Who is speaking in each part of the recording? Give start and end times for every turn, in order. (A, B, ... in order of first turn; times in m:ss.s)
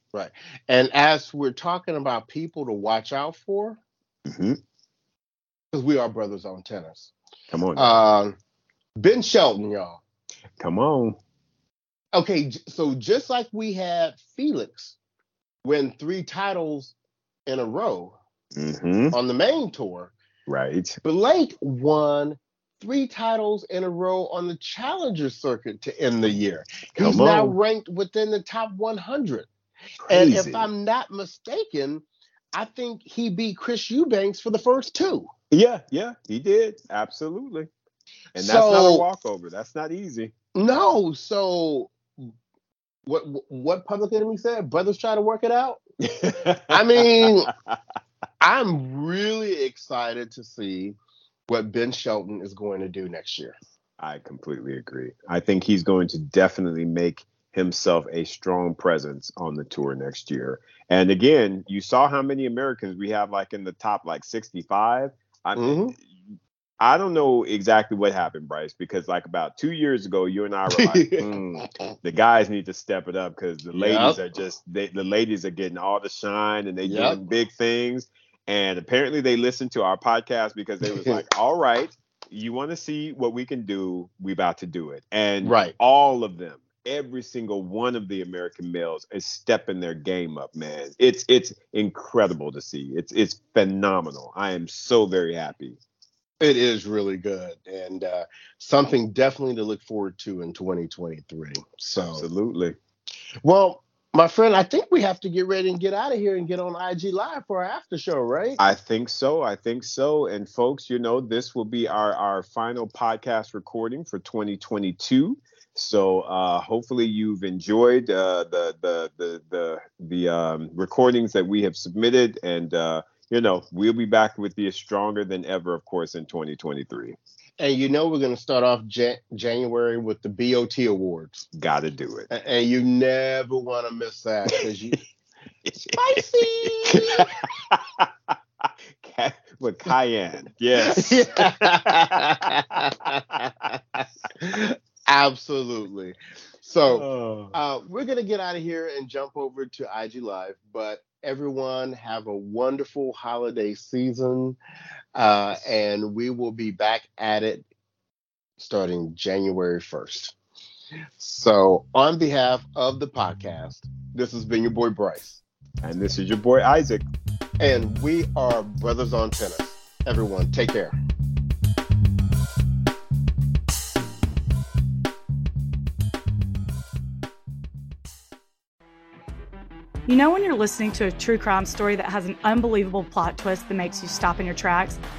0:00.1-0:03.8 A
0:04.3-0:04.6 B
0:05.7-0:07.1 A
0:07.5-0:08.0 B
0:07.7-0:08.4 A
0:09.0-0:10.0 A
0:10.6-0:11.2 B
0:12.1-0:15.0 A
0:15.6-0:16.9 A
0:17.5-0:18.2 A
0:18.5-0:19.2 B
0:19.1-0:20.1 A
0:20.5-0:21.0 B
0:21.0-0:29.5 A
0:27.0-0:27.6 B
0:30.0-0:30.7 B
0:30.1-0:35.3 A
0:35.5-0:37.7 B
0:38.3-0:40.3 B
0:38.4-0:39.0 A
0:40.5-0:42.0 A
0:43.0-0:45.8 A
0:46.2-0:47.8 B
0:46.7-0:47.5 A
0:48.4-0:51.0 A
0:51.5-0:53.6 A
0:54.0-1:06.0 B
1:05.6-1:05.9 A
1:06.8-1:11.2 B
1:10.7-1:11.7 A
1:12.0-1:35.8 B
1:13.7-1:14.2 A
1:16.8-1:17.2 A
1:20.9-1:21.2 A
1:25.4-1:25.7 A
1:36.4-1:42.2 A
1:42.0-1:42.8 B
1:43.4-1:48.6 A
1:48.6-2:07.2 B
2:07.6-2:11.4 A
2:11.5-2:12.3 B
2:12.3-2:15.0 A
2:15.6-2:16.2 B
2:15.9-2:17.3 A
2:16.8-2:23.4 B
2:20.8-2:34.6 A
2:26.9-2:27.5 B
2:35.2-2:37.6 A
2:38.6-2:40.4 A
2:41.2-2:45.4 A
2:45.8-2:47.0 B
2:47.6-2:50.9 A
3:00.1-3:05.0 C